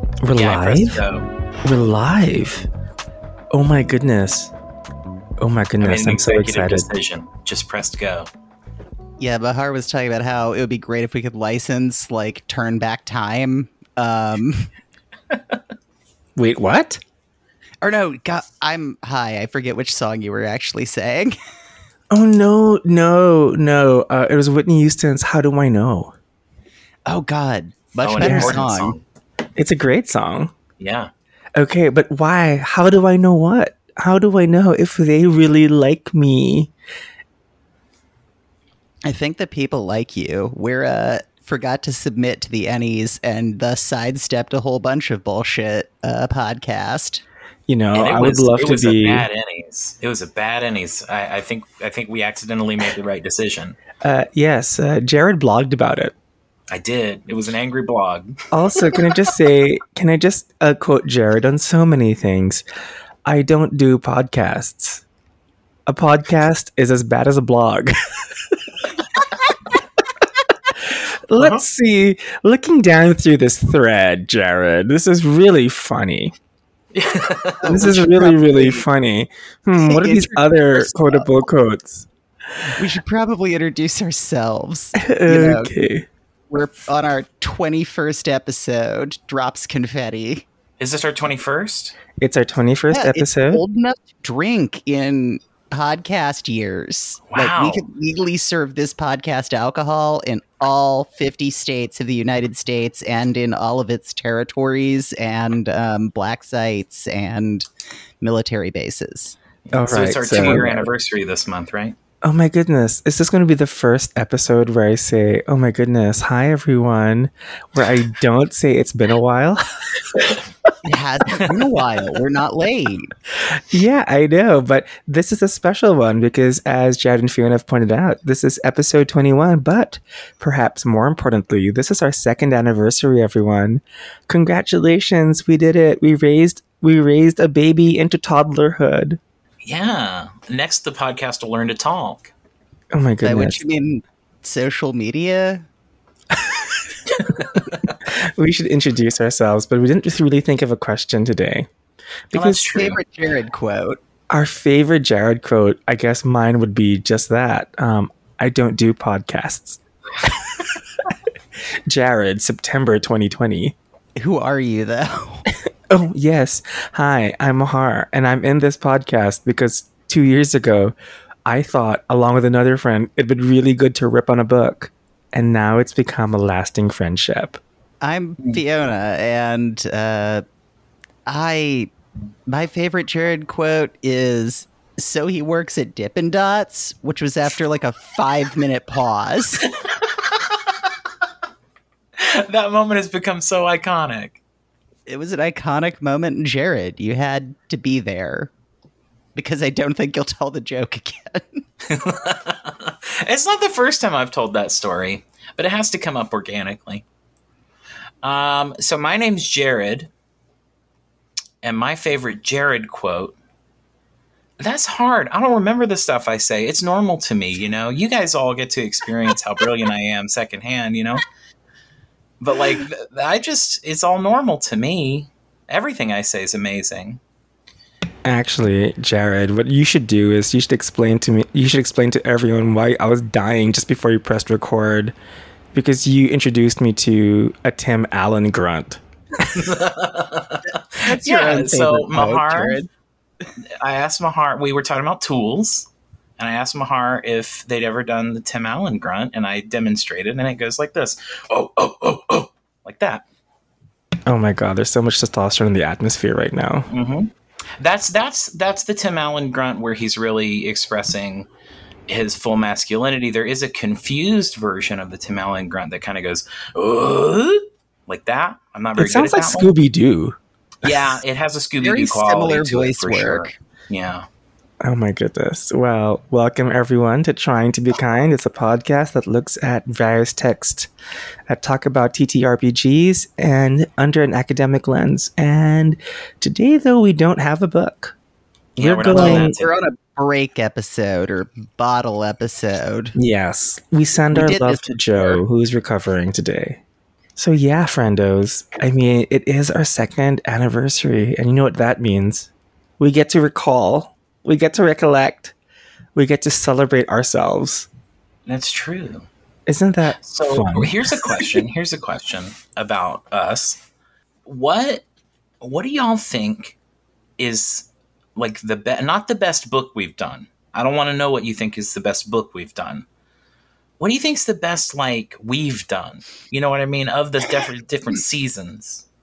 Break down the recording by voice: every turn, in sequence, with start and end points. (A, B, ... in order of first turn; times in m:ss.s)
0:00.2-0:01.0 A
0:00.3-0:01.3 B
0:01.6-0:02.7 A
0:03.5-0:04.5 A
0:05.4-0:06.9 A
0:05.8-0:08.3 B
0:09.2-0:14.7 C
0:16.4-0:17.0 A
0:17.8-0:21.4 C
0:22.1-0:26.1 A
0:27.1-0:29.0 C
0:28.0-0:29.0 B
0:28.2-0:28.7 A
0:29.6-0:30.5 A
0:30.8-0:31.1 B
0:31.5-0:36.7 A
0:39.0-0:47.2 C
0:47.7-0:49.3 A
0:47.9-0:53.8 B
0:54.0-0:56.1 A
0:56.7-0:58.4 B
0:58.5-1:02.6 A
1:03.2-1:05.0 A
1:05.9-1:08.8 A
1:10.8-1:16.3 A
1:11.4-1:11.6 B
1:16.9-1:17.6 B
1:17.6-1:18.8 C
1:17.6-1:22.1 A
1:19.7-1:21.3 C
1:22.7-1:25.7 C
1:25.0-1:26.1 A
1:26.5-1:30.4 C
1:30.8-1:32.0 B
1:32.2-1:33.6 A
1:32.9-1:47.7 C
1:37.3-1:37.8 B
1:48.2-1:49.4 C
1:49.6-1:52.0 B
1:49.7-1:50.9 A
1:52.2-2:00.4 A
2:00.8-2:03.1 C
2:03.4-2:19.2 A
2:19.6-2:22.3 B
2:22.9-2:23.6 A
2:23.2-2:25.7 C
2:26.3-2:26.8 A
2:27.2-2:27.9 B
2:28.0-2:31.7 A
2:32.3-2:33.0 B
2:32.3-2:34.0 C
2:34.3-2:40.8 A
2:41.9-2:43.8 A
2:44.2-2:45.4 C
2:45.9-2:50.9 A
2:51.4-2:57.6 A
2:58.0-3:00.4 C
3:01.3-3:01.9 C
3:02.5-3:09.7 C
3:10.1-3:10.5 B
3:12.2-3:14.4 B
3:15.1-3:18.5 C
3:19.3-3:21.6 C
3:21.9-3:27.0 B
3:28.2-3:30.1 B
3:31.6-3:33.3 B
3:34.6-3:41.2 B
3:42.4-3:47.2 B
3:48.2-3:55.1 A
3:55.7-3:59.7 A
3:59.5-4:02.8 B
4:01.0-4:02.9 C
4:03.8-4:13.2 B
4:14.2-4:16.9 A
4:16.9-4:21.5 B
4:22.1-4:29.7 B
4:29.0-4:31.0 A
4:30.8-4:34.3 B
4:31.8-4:33.5 C
4:34.8-4:40.9 A
4:41.5-4:48.1 A
4:48.8-4:49.8 B
4:48.8-4:49.5 A
4:49.1-4:53.2 C
4:53.1-4:56.8 A
4:54.3-4:55.4 C
4:57.4-5:05.5 A
5:06.1-5:07.9 A
5:08.4-5:09.3 B
5:09.7-5:11.3 A
5:10.2-5:13.8 B
5:14.4-5:15.0 B
5:15.6-5:16.8 B
5:17.4-5:23.0 B
5:24.0-5:29.0 B